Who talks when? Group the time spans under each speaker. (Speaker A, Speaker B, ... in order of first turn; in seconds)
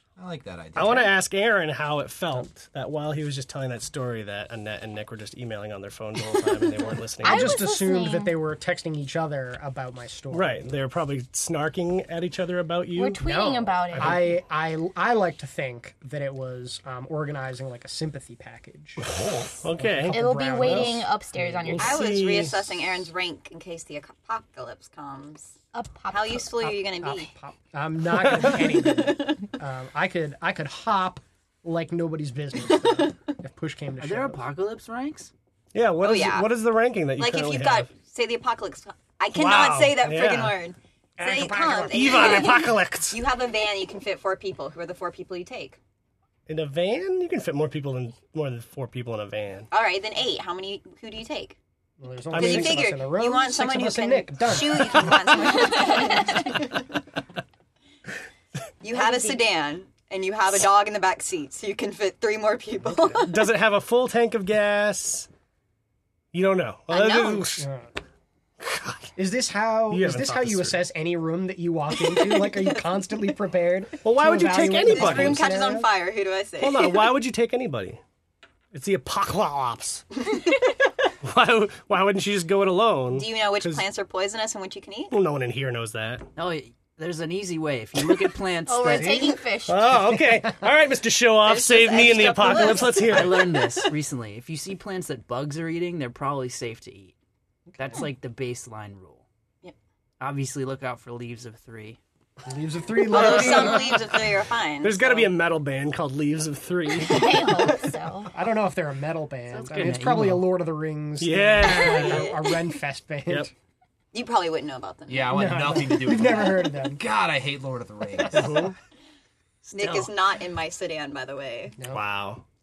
Speaker A: 0.2-1.1, 115.1-118.6
Speaker B: 0.7-7.6, 10.3-13.2, 19.0-21.0, 21.6-23.0, 35.7-37.9, 39.3-40.6, 41.9-43.2, 46.5-49.7, 52.3-52.9, 63.2-65.3, 66.3-67.7, 68.6-69.1, 69.9-70.8, 74.0-75.5, 76.6-78.0, 78.7-80.0, 81.2-83.9, 85.1-86.3, 89.6-93.5, 103.1-104.2, 104.8-107.7, 111.2-112.3, 118.3-118.7, 121.9-122.4
Speaker C: 7.2-8.3, 12.9-14.4, 20.1-22.0, 25.7-26.5, 55.7-56.5, 58.9-59.4, 88.7-89.9, 107.0-108.3
Speaker D: 7.2-10.6, 13.2-19.1, 19.8-21.9, 26.6-34.4, 41.2-42.5, 52.0-55.3, 62.8-63.2, 67.6-67.9, 69.2-75.9, 88.9-89.4, 90.3-90.6, 97.7-98.0, 102.5-104.1, 108.3-113.5, 115.3-117.0, 121.8-122.0
Speaker E: 21.8-25.5, 26.1-27.3, 28.4-29.5, 32.6-33.1, 36.0-36.5, 37.2-45.8, 49.7-51.6, 52.3-56.9, 58.8-63.5, 66.9-67.6, 72.0-72.9, 74.5-77.1, 83.1-85.2, 91.4-93.5, 103.0-105.3, 111.8-112.3, 114.1-115.6, 119.7-121.8
Speaker F: 34.0-35.3, 86.3-89.3, 92.8-97.1, 97.8-99.2, 100.2-102.0, 109.5-110.5